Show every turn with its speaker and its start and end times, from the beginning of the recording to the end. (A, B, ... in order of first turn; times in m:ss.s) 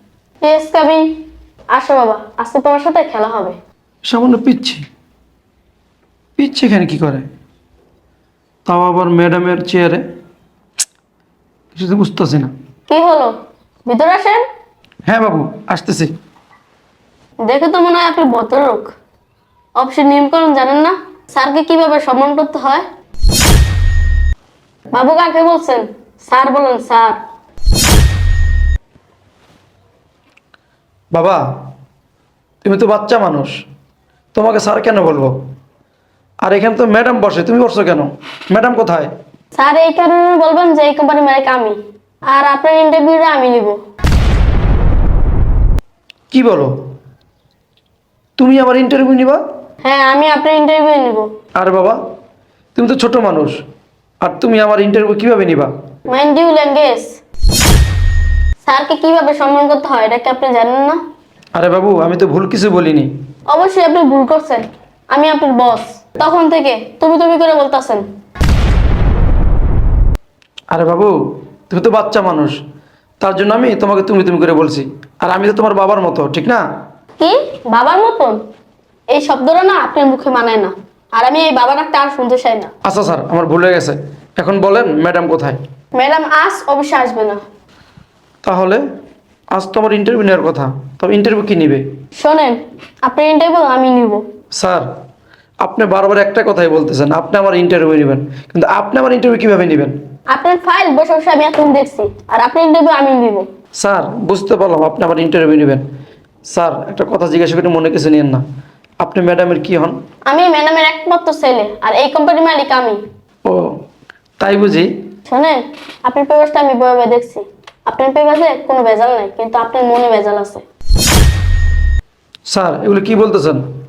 0:00.4-0:01.2 A
0:01.7-0:03.6 A
0:04.1-0:04.8 B
0:06.4-0:07.3 B
0:08.6-0:10.0 B
0:11.7-0:12.5 B
0:12.9-0:13.3 A
0:13.8-0:14.4 A
0:15.1-0:16.1 B
0:17.4-0:18.9 A
0:19.8-0:22.8 A
0:24.9-0:27.2 A
0:31.1-0:31.4 B
0:32.6-0:33.5 B
0:34.3-0:35.3 B
0:36.4-0:39.1 B
0:39.5-0:41.8 A
0:42.3-0:43.8 A
0:46.3-0:46.7 B
0:48.4-0:49.4 B
0:49.8-0:51.3 A
0:51.6-0:52.0 B
0:52.7-0:53.6 B
0:54.2-0:55.7 B
0:56.1-0:57.2 A
0:58.6-1:01.0 A
1:01.6-1:03.1 B
1:03.5-1:08.0 A
1:10.7-1:11.1 B
1:11.7-1:12.5 B
1:13.2-1:16.6 B
1:17.2-1:18.4 A
1:19.1-1:22.7 A
1:22.8-1:25.6 B
1:25.9-1:27.4 A
1:28.4-1:28.8 B
1:29.5-1:31.8 B
1:32.2-1:34.2 A
1:34.6-1:34.8 B
1:35.6-1:40.0 B
1:40.3-1:43.5 A
1:43.8-1:45.8 B
1:46.5-1:48.4 B
1:49.0-1:50.0 B
1:50.2-1:53.0 A
1:53.4-1:53.7 B
1:54.4-1:54.9 B
1:55.2-2:00.6 A
2:02.5-2:03.6 B